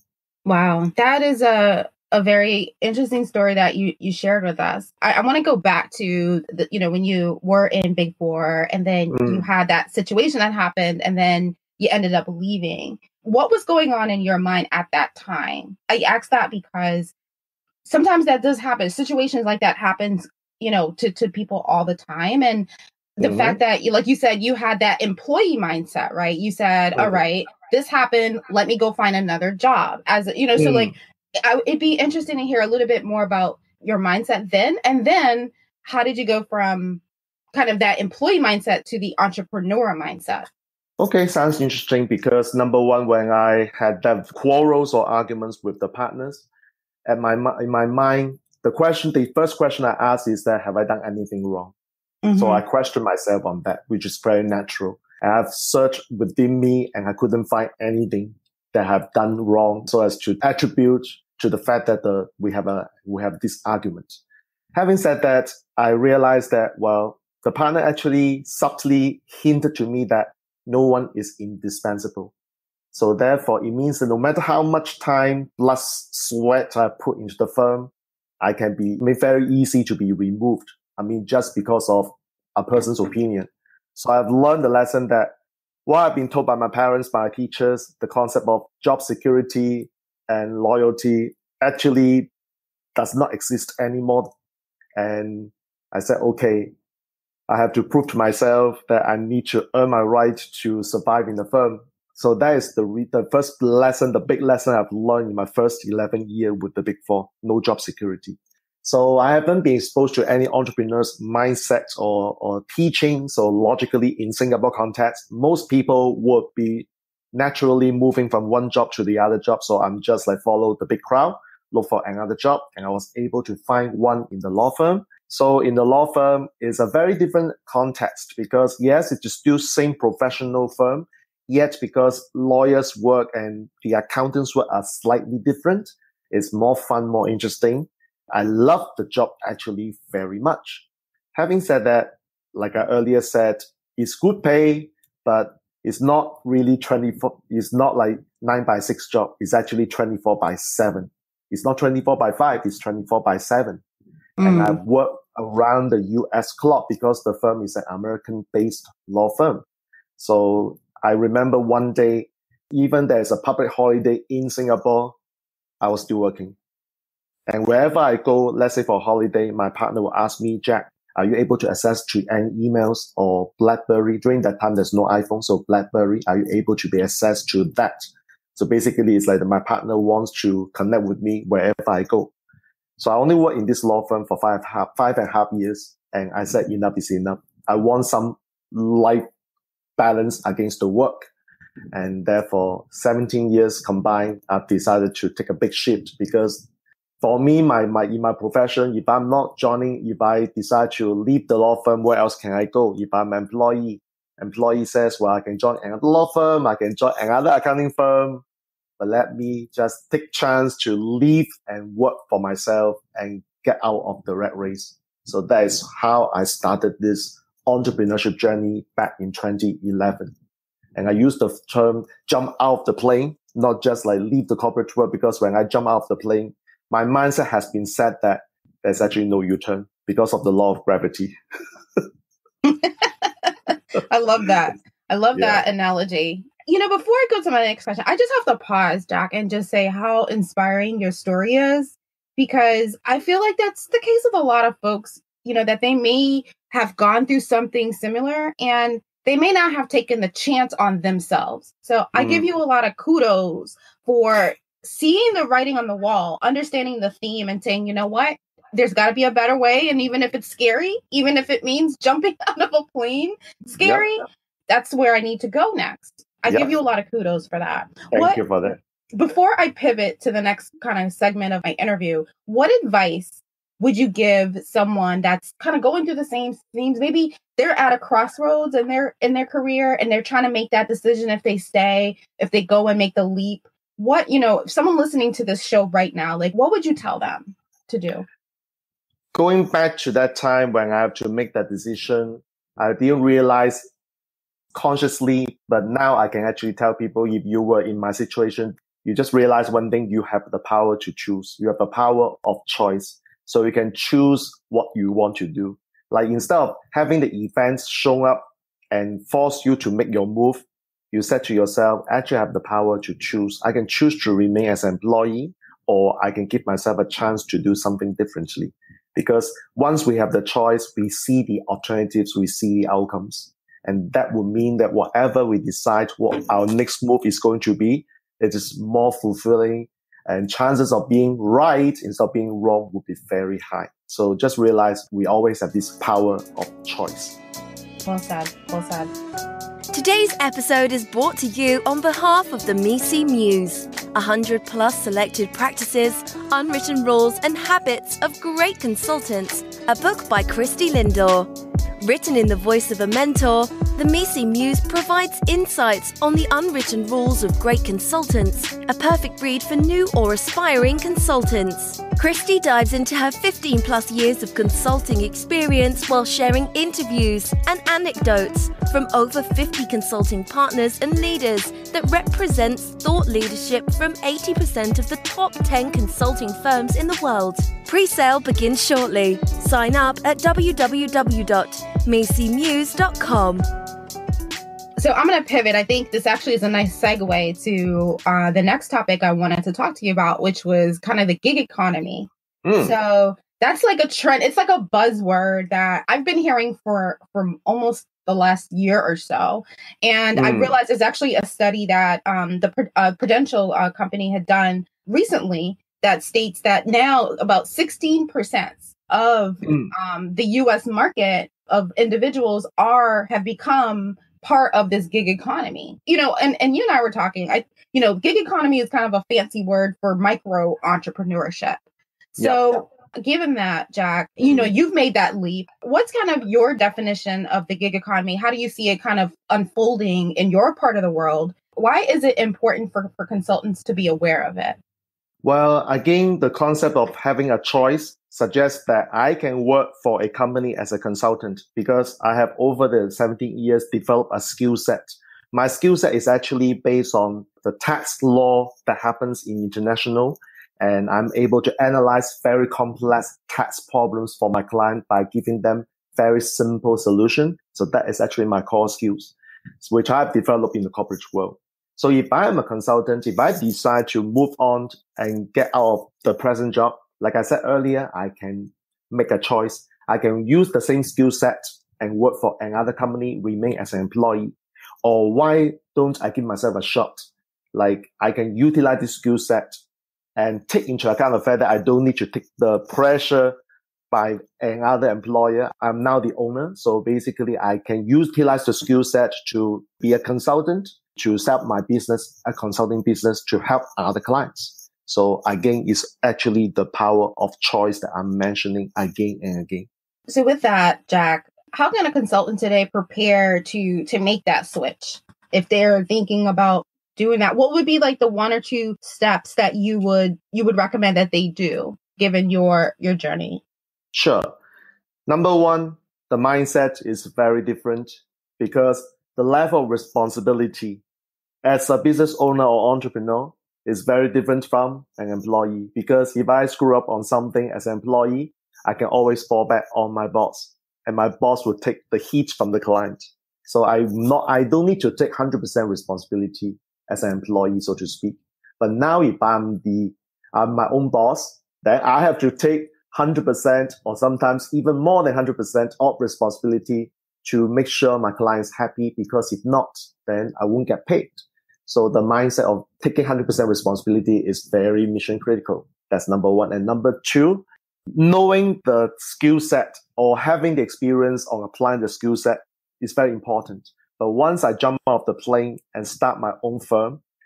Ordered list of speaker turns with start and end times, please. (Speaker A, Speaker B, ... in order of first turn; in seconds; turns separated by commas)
Speaker A: 0.5-17.1, Speaker B: 9.1-9.5, Speaker A: 17.9-37.0, Speaker B: 23.2-23.6, Speaker B: 26.9-27.2, Speaker B: 30.6-30.9, Speaker A: 37.5-40.5, Speaker B: 41.0-46.5, Speaker B: 47.1-51.7, Speaker A: 52.2-52.6, Speaker B: 52.4-64.2, Speaker B: 64.7-72.3, Speaker B: 72.9-85.3, Speaker B: 85.9-92.3, Speaker B: 93.0-94.3, Speaker B: 95.0-96.7, Speaker B: 97.5-153.8, Speaker A: 154.4-154.8, Speaker B: 154.4-159.6, Speaker B: 160.2-165.2, Speaker B: 165.8-166.6, Speaker B: 167.5-182.3, Speaker B: 183.0-189.3, Speaker B: 190.0-191.3, Speaker B: 191.9-196.7, Speaker B: 197.2-208.4, Speaker B: 209.0-220.3, Speaker B: 221.0-231.3, Speaker A: 232.6-268.4, Speaker B: 235.3-235.6, Speaker B: 252.2-252.5, Speaker B: 263.8-264.1, Speaker B: 268.1-268.8, Speaker A: 269.1-288.2, Speaker B: 289.3-293.9, Speaker B: 294.7-337.4, Speaker A: 338.1-339.1, Speaker C: 339.9-351.5, Speaker C: 352.0-383.6, Speaker A: 385.0-421.8, Speaker B: 392.6-392.9, Speaker B: 400.4-400.7, Speaker A: 422.4-434.8, Speaker B: 422.4-422.8, Speaker B: 435.4-479.8, Speaker B: 480.4-483.6, Speaker B: 484.1-499.9, Speaker A: 500.3-513.6, Speaker B: 514.1-514.5, Speaker B: 515.3-521.0, Speaker B: 521.6-567.2